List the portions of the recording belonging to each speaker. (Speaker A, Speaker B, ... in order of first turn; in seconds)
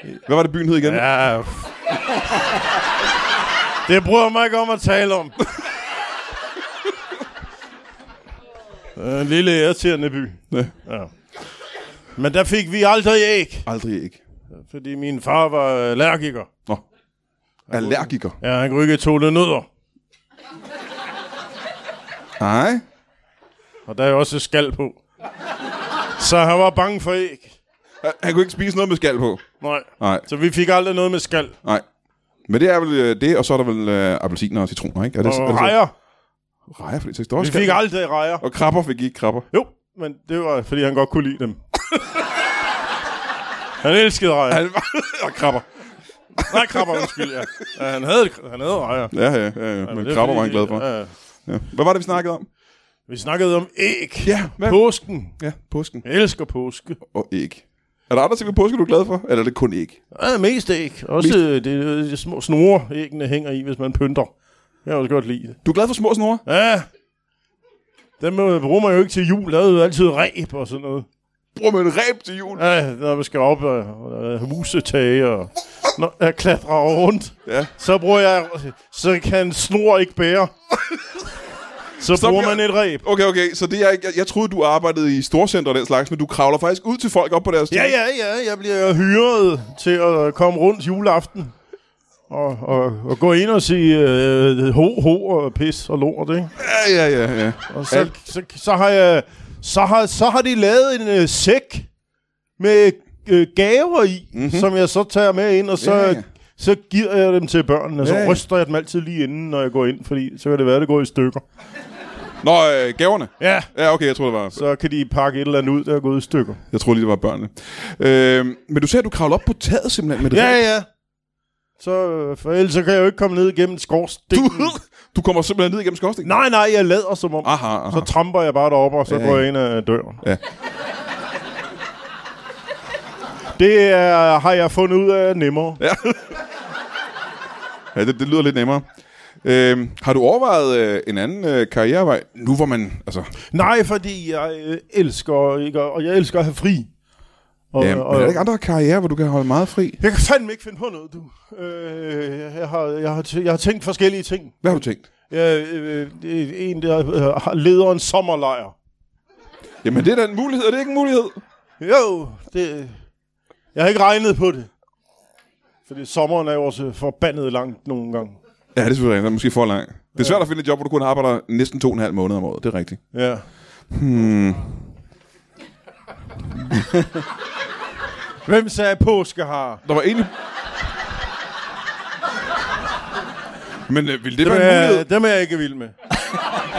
Speaker A: 0.2-1.1, 13.7-14.2, 17.7-18.4, 22.4-22.8, 28.0-29.4, 30.0-30.2, 32.5-35.8, 36.7-37.8, 38.4-39.5, 44.5-45.7, 46.4-47.4, 49.1-50.9, 51.5-52.5, 54.2-54.8, 55.4-56.0, 57.1-60.0, 65.6-66.4, 71.5-72.6, 82.1-87.9, 96.6-98.1, 104.3-104.7, 105.8-106.2, 108.0-108.4, 112.4-114.6, 116.7-120.6, 124.3-126.3, 127.4-128.1, 129.1-129.4, 135.8-136.3, 137.9-138.8, 139.4-143.3, 147.8-150.0, 154.6-155.0, 159.8-161.4, 168.7-173.0, 173.9-174.8, 179.8-180.3, 183.9-185.1
Speaker B: 0.8-1.7, 3.9-5.4, 8.9-11.1, 12.2-13.7, 14.7-16.5, 17.7-19.7, 23.9-25.0, 26.2-27.6, 29.6-31.6, 35.2-35.9, 37.4-38.4, 39.5-41.6, 43.8-44.6, 46.4-49.1, 49.8-51.1, 53.1-55.4, 56.0-57.0, 60.1-64.3, 64.8-65.6, 66.5-66.9, 68.2-71.0, 72.5-80.5, 82.0-83.0, 87.7-91.5, 92.3-96.5, 97.7-101.9, 102.6-111.4, 113.4-113.7, 114.5-116.6, 120.3-120.9, 121.8-124.7, 126.2-130.2, 133.6-135.8, 143.5-146.9, 147.7-148.4, 150.0-158.7, 161.8-162.9, 163.7-164.7, 165.9-168.4, 173.1-173.4, 178.4-179.8, 184.4-185.9